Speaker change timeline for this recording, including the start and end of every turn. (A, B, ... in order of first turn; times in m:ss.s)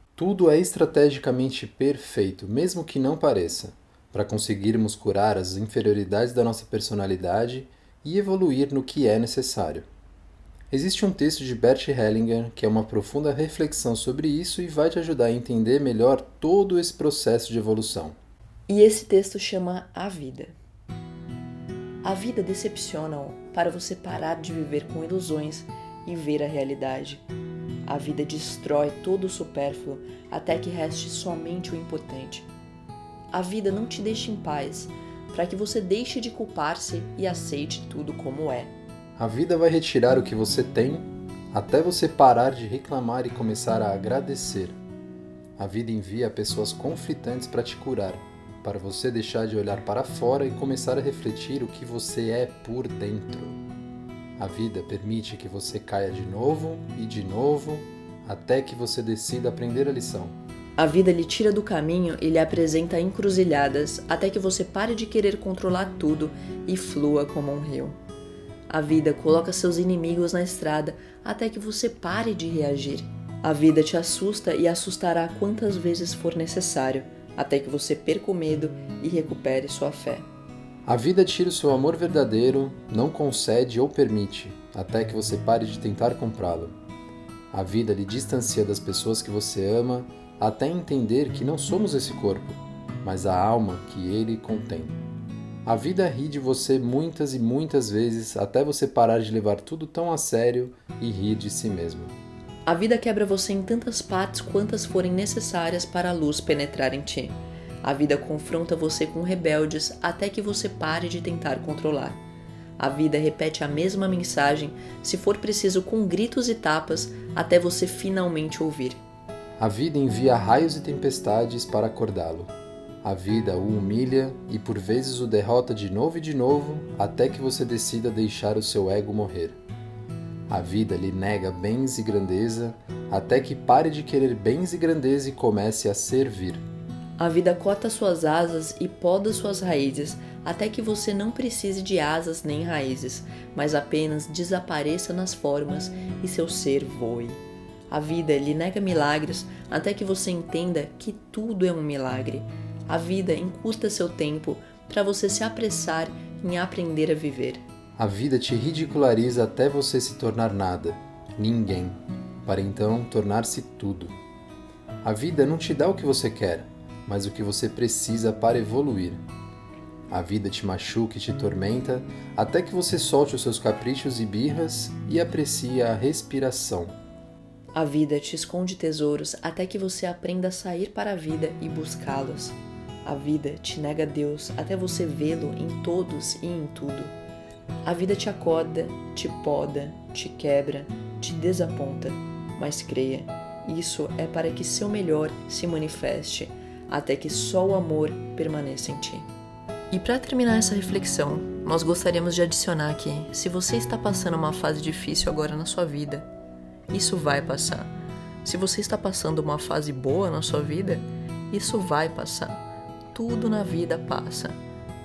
0:00.2-0:09.9 A
0:10.7-0:18.2 A
0:18.7-0:20.5 B
0:22.0-0:27.2 B
0:27.8-0:32.5 B
0:33.3-0:38.7 B
0:39.2-0:44.8 A
0:45.6-0:53.6 A
0:54.4-1:00.4 A
1:00.8-1:08.0 B
1:08.7-1:20.2 B
1:20.8-1:26.7 A
1:27.5-1:35.0 A
1:35.6-1:42.1 A
1:42.6-1:52.2 B
1:52.8-1:59.0 B
1:59.6-2:02.5 A
2:03.0-2:09.6 A
2:10.5-2:16.6 A
2:17.2-2:37.6 B
2:38.0-2:44.2 A
2:45.0-2:49.2 A
2:50.1-2:56.9 A
2:57.7-3:07.1 B
3:07.8-3:19.3 B
3:19.9-3:26.3 B
3:26.9-3:27.9 B
3:28.4-3:34.6 B